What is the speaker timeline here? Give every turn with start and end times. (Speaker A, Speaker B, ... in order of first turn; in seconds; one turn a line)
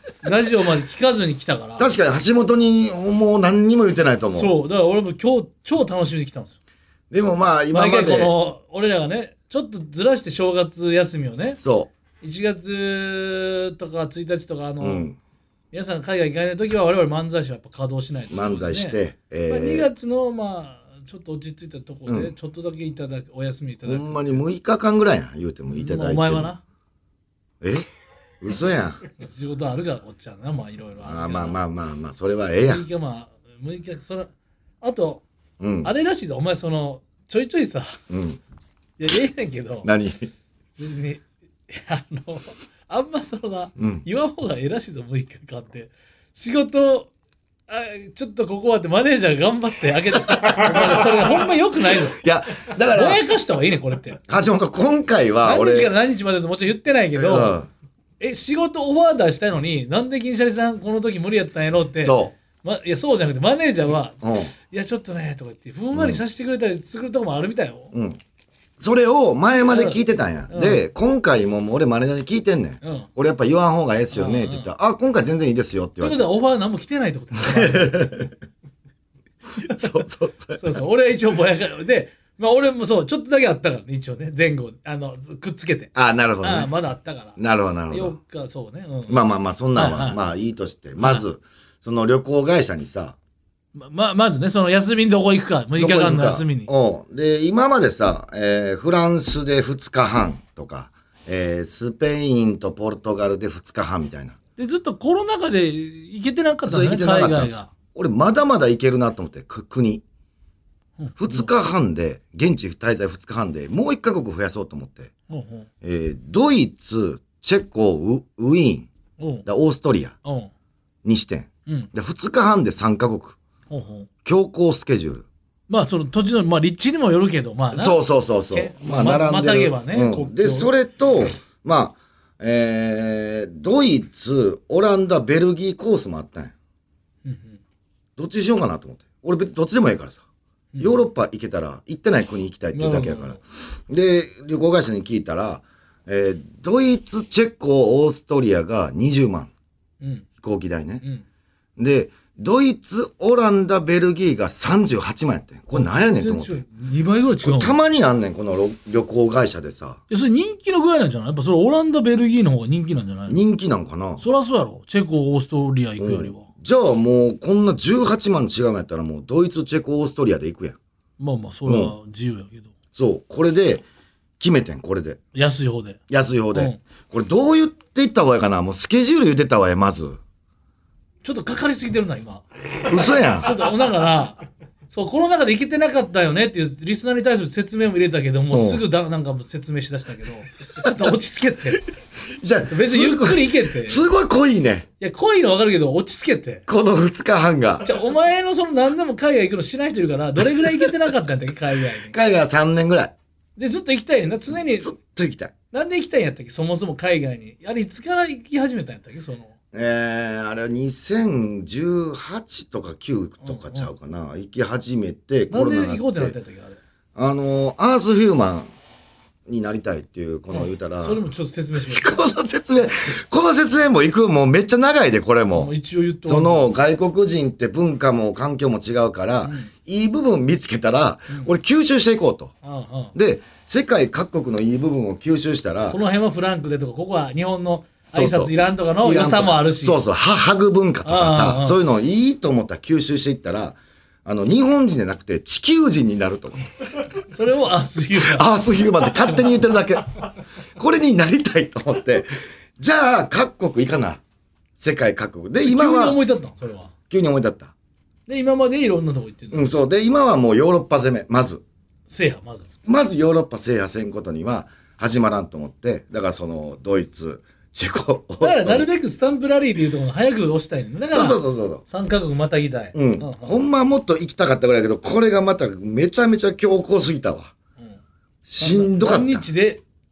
Speaker A: 0.2-1.9
Speaker B: 1.8-4.5
Speaker A: 4.3-6.6
Speaker B: 7.1-8.3
Speaker A: 7.7-11.6
Speaker B: 11.6-11.9
Speaker A: 12.2-15.1
Speaker B: 14.8-15.2
Speaker A: 15.7-18.9
Speaker B: 18.3-19.9
Speaker A: 19.5-24.4
Speaker B: 22.1-22.3
Speaker B: 23.9-26.5
Speaker A: 25.8-26.6
Speaker B: 27.6-27.9
Speaker B: 28.4-29.0
Speaker A: 29.2-31.6
Speaker B: 31.0-32.8
Speaker A: 32.6-34.3
Speaker A: 34.8-35.2
Speaker B: 35.6-35.9
Speaker A: 35.8-38.0
Speaker B: 38.1-38.4
Speaker A: 39.0-39.9
Speaker B: 39.8-40.3
Speaker A: 40.8-47.1
Speaker B: 43.8-44.0
Speaker A: 47.7-52.2
Speaker B: 52.2-53.2
Speaker A: 52.9-54.2
Speaker B: 54.3-55.9
Speaker A: 55.4-57.5
Speaker B: 57.1-57.7
Speaker A: 58.2-67.9
Speaker B: 62.0-62.3
Speaker B: 64.2-64.5
Speaker B: 65.9-66.2
Speaker B: 67.9-68.2
Speaker B: 68.8-76.2
Speaker A: 69.7-70.8
Speaker A: 72.8-73.1
Speaker A: 74.1-74.7
Speaker A: 76.0-78.1
Speaker B: 77.3-78.3
Speaker B: 79.5-80.8
Speaker A: 80.6-87.4
Speaker B: 85.9-86.7
Speaker B: 87.4-88.2
Speaker A: 87.9-89.2
Speaker B: 89.1-93.2
Speaker A: 89.8-90.2
Speaker A: 91.0-91.2
Speaker A: 93.7-96.7
Speaker B: 95.7-104.4
Speaker A: 104.6-107.7
Speaker B: 106.7-110.0
Speaker A: 111.0-111.5
Speaker B: 111.2-115.1
Speaker A: 115.3-115.7
Speaker B: 115.8-118.9
Speaker A: 119.2-119.5
Speaker B: 119.5-120.1
Speaker A: 120.2-120.5
Speaker B: 121.0-123.4
Speaker A: 123.7-124.1
Speaker B: 124.2-125.2
Speaker A: 125.7-130.7
Speaker B: 127.7-136.5
Speaker A: 137.2-137.6
Speaker B: 138.2-140.2
Speaker A: 140.7-141.0
Speaker B: 140.8-149.5
Speaker A: 142.7-143.4
Speaker B: 150.4-151.0
Speaker B: 151.8-156.6
Speaker A: 155.7-157.7
Speaker B: 157.4-160.0
Speaker A: 160.1-163.4
Speaker B: 163.3-164.2
Speaker A: 164.2-166.5
Speaker B: 166.0-170.8
Speaker A: 171.2-172.7
Speaker B: 171.7-171.9
Speaker B: 172.9-173.8
Speaker B: 174.4-175.2
Speaker A: 175.3-176.0
Speaker B: 176.1-180.2
Speaker A: 176.5-176.8
Speaker A: 181.2-182.4
Speaker B: 182.9-183.5
Speaker A: 183.4-191.8
Speaker B: 188.5-188.8
Speaker B: 192.4-194.9
Speaker A: 192.7-194.0
Speaker A: 195.0-196.6
Speaker B: 196.7-197.8
Speaker A: 197.8-202.1
Speaker B: 202.1-203.1
Speaker A: 203.6-204.9
Speaker B: 204.8-205.5
Speaker A: 205.7-209.5
Speaker B: 209.7-216.3
Speaker A: 213.4-213.9
Speaker A: 215.5-216.8
Speaker B: 217.1-218.7
Speaker B: 219.5-221.2
Speaker A: 220.5-222.2
Speaker B: 221.8-225.7
Speaker A: 225.5-226.7
Speaker B: 226.2-232.5
Speaker A: 229.4-229.7
Speaker A: 232.6-233.1
Speaker B: 233.1-236.0
Speaker A: 235.9-240.0
Speaker B: 238.1-246.7
Speaker A: 241.0-241.8
Speaker A: 247.3-248.5
Speaker B: 248.1-250.2
Speaker B: 250.8-254.2
Speaker B: 254.8-256.2
Speaker A: 255.6-256.9
Speaker B: 257.1-257.7
Speaker A: 258.3-259.6
Speaker B: 259.5-261.6
Speaker A: 262.1-262.7
Speaker B: 262.9-268.9
Speaker A: 268.4-273.6
Speaker B: 271.1-271.8
Speaker B: 272.9-277.5
Speaker B: 278.4-279.5
Speaker A: 278.6-279.8